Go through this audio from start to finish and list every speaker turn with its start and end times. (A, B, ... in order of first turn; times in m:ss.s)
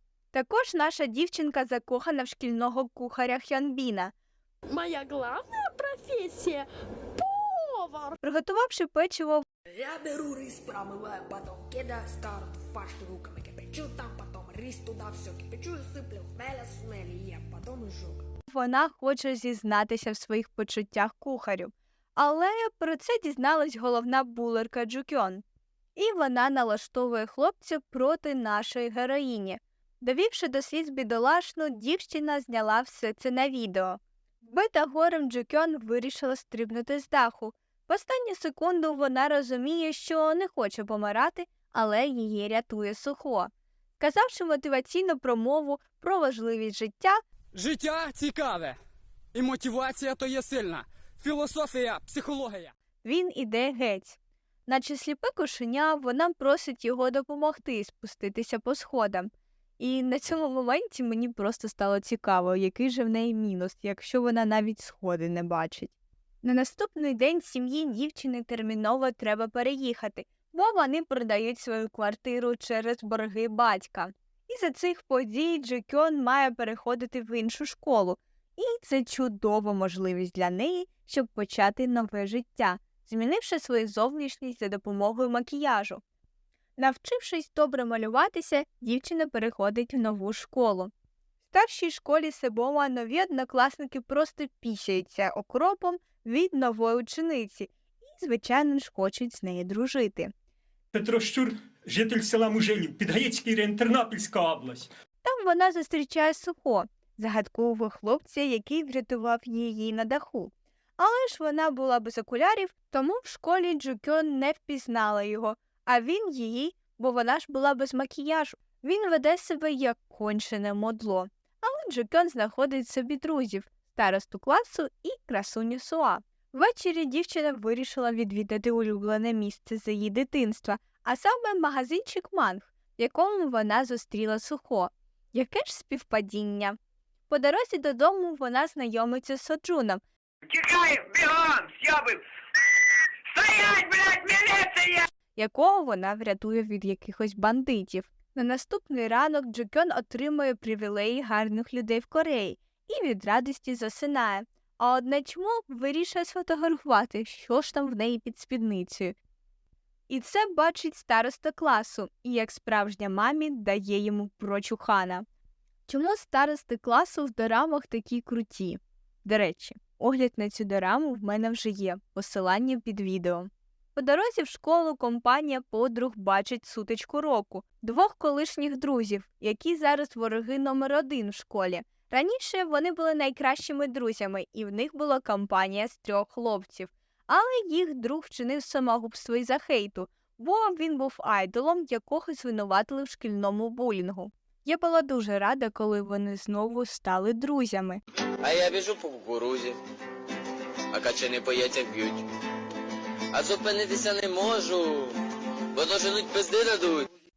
0:00.3-0:04.1 A
0:04.7-0:06.7 B
0:07.2-0:08.2 B
0:08.2-0:09.4 A
0:09.7-0:18.3 C
0:18.5-0:25.4 A
0:26.0-0:47.2 A
0:47.5-0:48.8 D
0:49.3-0:52.7 D
0:53.0-1:26.0 A
1:26.8-1:30.9 A
1:31.5-1:40.3 A
1:40.9-1:44.9 E
1:45.2-2:16.8 A
2:17.3-2:20.0 A
2:20.5-2:22.2 F
2:23.4-2:24.8 F
2:25.3-2:39.2 A
2:40.1-2:45.2 A
2:45.9-3:18.0 A
3:18.4-3:19.8 G
3:20.9-3:22.2 G
3:23.3-3:25.1 G
3:25.8-3:27.1 G